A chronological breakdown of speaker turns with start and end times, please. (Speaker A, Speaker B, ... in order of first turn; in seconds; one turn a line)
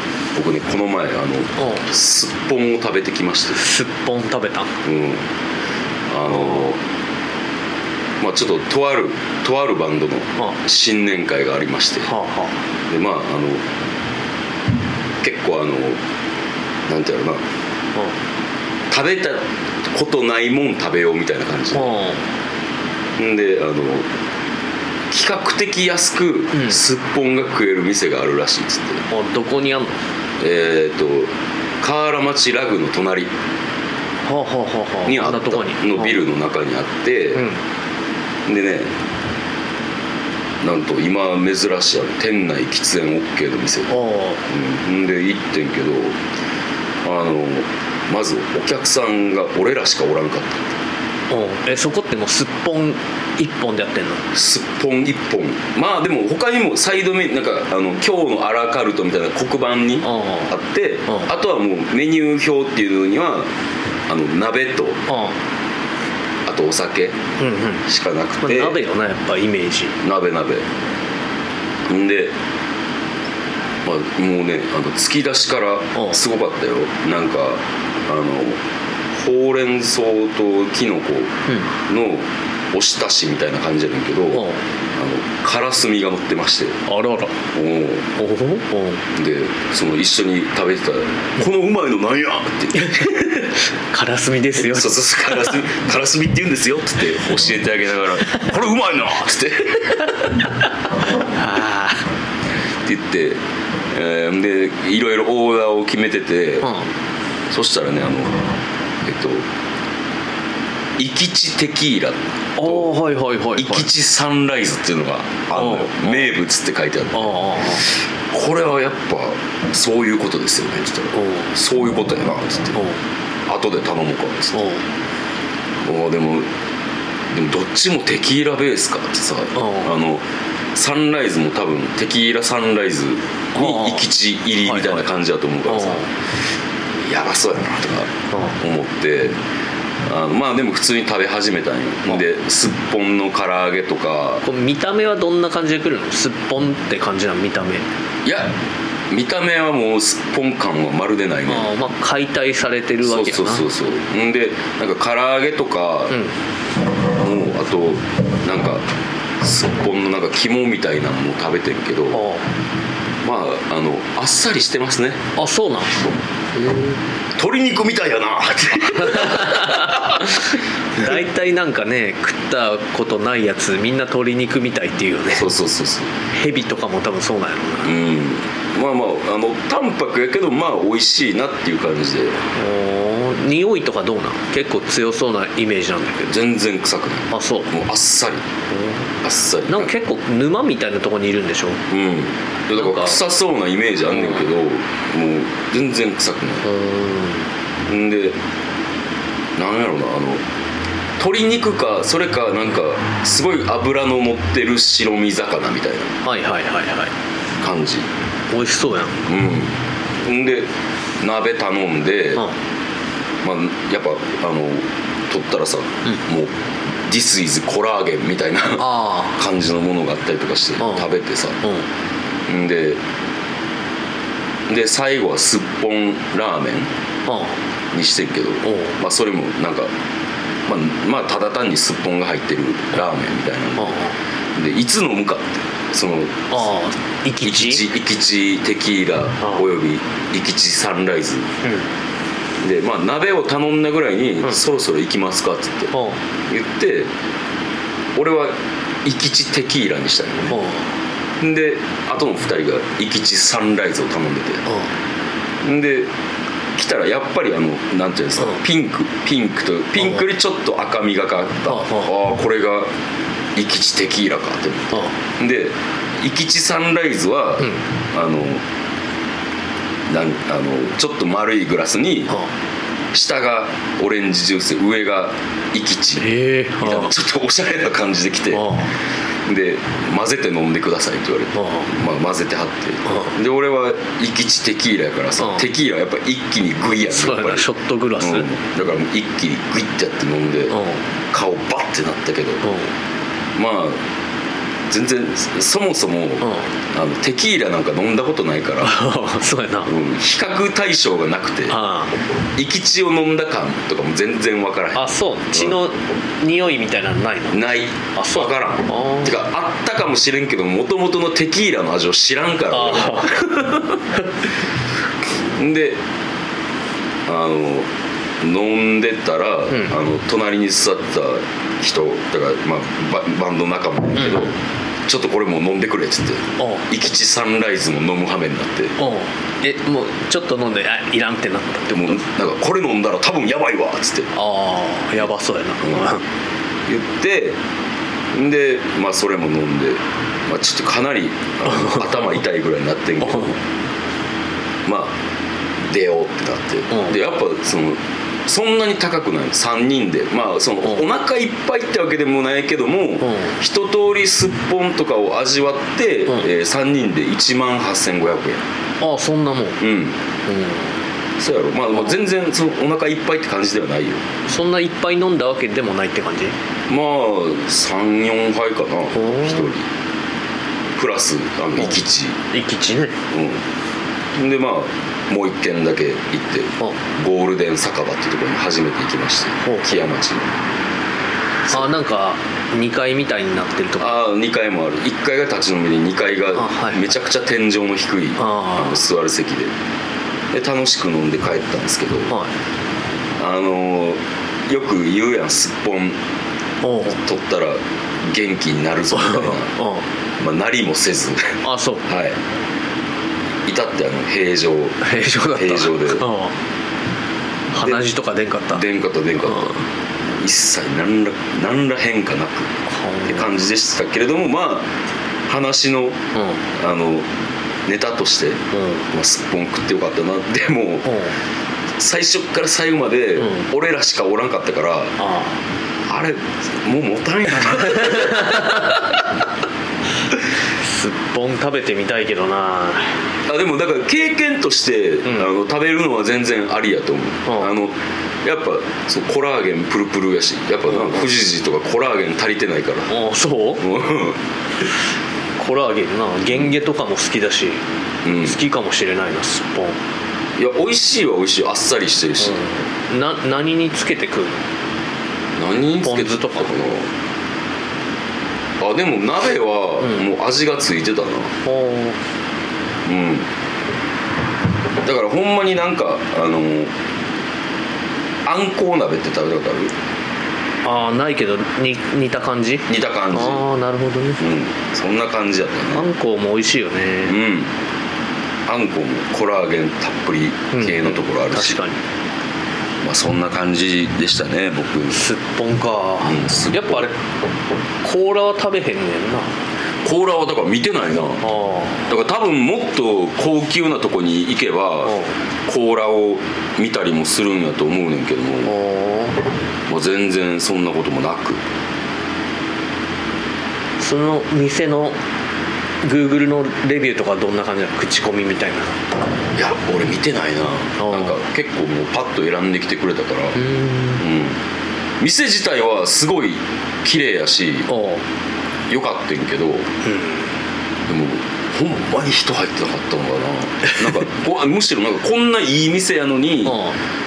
Speaker A: 0.3-3.6
Speaker B: 1.6-1.9
Speaker B: 3.5-4.7
Speaker A: 4.8-5.2
Speaker A: 6.1-6.8
Speaker B: 6.3-6.6
Speaker A: 8.2-12.1
Speaker B: 12.1-12.6
Speaker A: 12.9-13.6
Speaker A: 15.2-16.0
Speaker A: 16.9-17.4
Speaker A: 18.9-21.9
Speaker B: 21.7-22.2
Speaker A: 23.2-24.1
Speaker A: 25.1-29.0
Speaker B: 29.1-30.0
Speaker A: 30.4-33.3
Speaker B: 34.3-36.2
Speaker A: 35.0-37.5
Speaker B: 37.3-37.6
Speaker A: 38.5-38.9
Speaker A: 40.6-43.9
Speaker B: 43.9-44.4
Speaker A: 44.5-46.2
Speaker A: 47.0-50.7
Speaker B: 51.3-54.2
Speaker A: 54.3-63.5
Speaker B: 60.0-60.5
Speaker A: 64.1-65.0
Speaker B: 65.1-65.3
Speaker A: 66.4-67.2
Speaker B: 67.4-67.8
Speaker A: 67.9-68.8
Speaker B: 68.4-70.0
Speaker A: 70.0-70.7
Speaker A: 71.8-72.3
Speaker A: 73.8-78.6
Speaker A: 79.1-81.3
Speaker A: 81.9-86.8
Speaker B: 84.3-84.6
Speaker B: 86.8-87.3
Speaker A: 87.5-88.1
Speaker B: 88.2-89.0
Speaker A: 89.1-93.3
Speaker B: 92.7-95.5
Speaker A: 94.6-100.3
Speaker B: 101.1-102.0
Speaker A: 102.8-103.4
Speaker A: 103.9-106.7
Speaker B: 106.6-106.9
Speaker A: 107.5-108.4
Speaker A: 109.0-109.5
Speaker A: 111.0-112.9
Speaker B: 112.6-113.9
Speaker A: 113.5-122.8
Speaker B: 115.5-116.3
Speaker B: 117.1-117.8
Speaker B: 121.1-121.5
Speaker A: 123.5-124.7
Speaker B: 124.5-124.8
Speaker A: 125.8-126.5
Speaker A: 127.3-130.2
Speaker B: 129.5-129.9
Speaker A: 130.7-136.1
Speaker B: 133.6-134.1
Speaker B: 134.7-135.1
Speaker B: 135.7-136.1
Speaker A: 137.0-139.4
Speaker B: 138.3-138.6
Speaker A: 140.0-144.4
Speaker B: 144.4-147.8
Speaker A: 148.2-148.5
Speaker A: 149.1-151.7
Speaker B: 151.5-153.6
Speaker A: 153.0-156.2
Speaker A: 157.1-158.8
Speaker A: 159.4-162.2
Speaker B: 162.1-162.4
Speaker A: 163.2-165.2
Speaker B: 165.3-166.0
Speaker B: 166.6-166.9
Speaker A: 167.3-170.4
Speaker B: 168.9-175.5
Speaker A: 175.3-176.1
Speaker B: 176.3-177.9
Speaker A: 177.8-182.4
Speaker B: 182.5-186.3
Speaker A: 186.3-188.4
Speaker B: 187.3-187.7
Speaker B: 188.7-189.0
Speaker A: 189.2-189.9
Speaker B: 189.7-191.8
Speaker A: 191.9-196.6
Speaker B: 192.8-193.2
Speaker B: 194.1-194.4
Speaker B: 196.6-197.4
Speaker A: 197.9-198.3
Speaker A: 199.6-200.4
Speaker A: 201.2-206.1
Speaker B: 206.2-207.1
Speaker A: 207.6-208.1
Speaker B: 208.5-209.2
Speaker A: 209.3-210.7
Speaker A: 211.2-212.4
Speaker A: 213.4-216.5
Speaker A: 217.1-221.6
Speaker B: 218.8-219.4
Speaker B: 220.8-221.1
Speaker A: 222.5-223.0
Speaker A: 224.7-226.9
Speaker B: 227.2-227.6
Speaker A: 227.9-229.9
Speaker B: 228.6-229.0
Speaker A: 230.7-234.0
Speaker B: 233.8-234.2
Speaker A: 234.5-236.5
Speaker B: 236.5-237.8
Speaker A: 237.4-241.5
Speaker A: 242.6-245.9
Speaker B: 245.9-246.2
Speaker A: 246.5-247.1
Speaker A: 248.1-250.6
Speaker B: 250.5-250.9
Speaker A: 251.4-254.6
Speaker A: 255.6-256.1
Speaker A: 256.7-262.9
Speaker B: 261.7-262.1
Speaker A: 263.6-268.6
Speaker A: 270.1-272.3
Speaker A: 273.1-276.3
Speaker B: 276.2-277.1
Speaker A: 276.8-278.7
Speaker B: 278.5-278.9
Speaker A: 279.4-290.8
Speaker B: 281.5-281.9
Speaker B: 283.1-283.3
Speaker B: 287.1-288.5
Speaker B: 290.7-291.0
Speaker A: 291.3-292.6
Speaker B: 292.6-292.9
Speaker A: 293.5-294.0
Speaker A: 294.9-299.0
Speaker B: 296.4-296.7
Speaker B: 298.8-299.9
Speaker A: 299.9-301.8
Speaker B: 301.7-302.1
Speaker A: 302.6-305.8
Speaker B: 304.9-309.3
Speaker A: 307.5-313.5
Speaker B: 312.7-314.0
Speaker A: 315.5-316.0
Speaker A: 317.2-317.9
Speaker A: 318.4-324.5
Speaker B: 324.2-324.5
Speaker A: 325.1-328.9
Speaker B: 326.6-326.9
Speaker B: 329.0-332.2
Speaker A: 331.9-334.3
Speaker B: 334.3-336.2
Speaker A: 335.8-336.1
Speaker A: 336.9-337.6
Speaker A: 338.3-343.6
Speaker B: 341.6-342.1
Speaker A: 344.8-345.2
Speaker A: 345.9-358.6
Speaker B: 346.9-347.1
Speaker B: 353.2-353.5
Speaker B: 359.0-359.8
Speaker A: 359.8-360.2
Speaker B: 360.4-360.9
Speaker A: 361.4-364.2
Speaker B: 364.5-366.5
Speaker A: 366.9-369.9
Speaker B: 369.1-369.7
Speaker A: 370.9-372.4
Speaker B: 372.5-373.2
Speaker A: 373.3-373.6
Speaker A: 374.3-380.5
Speaker B: 379.6-379.9
Speaker B: 381.7-384.2
Speaker A: 384.0-389.7
Speaker B: 386.6-387.1
Speaker B: 388.4-389.0
Speaker A: 390.5-392.3
Speaker A: 393.4-396.2
Speaker B: 396.8-397.2
Speaker A: 397.1-399.7
Speaker B: 399.1-400.0
Speaker A: 400.4-402.4
Speaker B: 401.6-402.1
Speaker A: 403.6-406.2
Speaker B: 405.0-406.5
Speaker B: 407.7-408.8
Speaker A: 407.8-408.1
Speaker A: 408.7-409.7
Speaker B: 409.5-409.8
Speaker A: 410.4-412.7
Speaker B: 412.9-413.5
Speaker A: 413.2-414.9
Speaker A: 415.5-416.2
Speaker B: 416.3-416.6
Speaker A: 416.8-417.3
Speaker A: 417.9-421.1
Speaker B: 418.7-419.1
Speaker B: 421.1-421.3
Speaker A: 422.0-425.1
Speaker B: 423.4-423.7
Speaker B: 425.2-425.6
Speaker A: 426.1-429.1
Speaker B: 427.9-428.9
Speaker B: 430.8-433.1
Speaker A: 433.5-443.1
Speaker B: 437.4-437.7
Speaker B: 443.1-443.9
Speaker A: 443.8-444.4
Speaker B: 445.6-447.8
Speaker A: 448.2-448.6
Speaker B: 448.4-450.0
Speaker A: 450.6-452.6
Speaker B: 452.4-454.6
Speaker A: 455.6-457.1
Speaker B: 456.0-456.9
Speaker A: 458.8-461.5
Speaker B: 461.6-462.2
Speaker A: 463.1-463.5
Speaker A: 465.0-466.9
Speaker A: 468.4-469.9
Speaker B: 470.8-474.4
Speaker A: 472.9-473.7
Speaker A: 474.4-476.1
Speaker B: 475.9-477.4
Speaker A: 477.2-477.7
Speaker A: 478.7-481.8
Speaker B: 480.7-482.0
Speaker A: 483.0-485.2
Speaker B: 485.1-487.1
Speaker A: 486.2-487.1
Speaker B: 488.0-489.5
Speaker A: 490.0-491.4
Speaker B: 491.4-492.1
Speaker A: 492.1-498.7
Speaker B: 495.0-495.3
Speaker B: 498.6-499.4
Speaker A: 499.9-501.6
Speaker B: 504.0-505.1
Speaker B: 506.0-508.9
Speaker A: 509.5-513.6
Speaker B: 511.0-511.4
Speaker B: 513.5-514.2
Speaker A: 514.2-514.6
Speaker A: 515.2-517.9
Speaker B: 517.9-518.2
Speaker A: 518.9-519.9
Speaker B: 520.0-520.4
Speaker A: 521.1-526.8
Speaker B: 526.6-527.0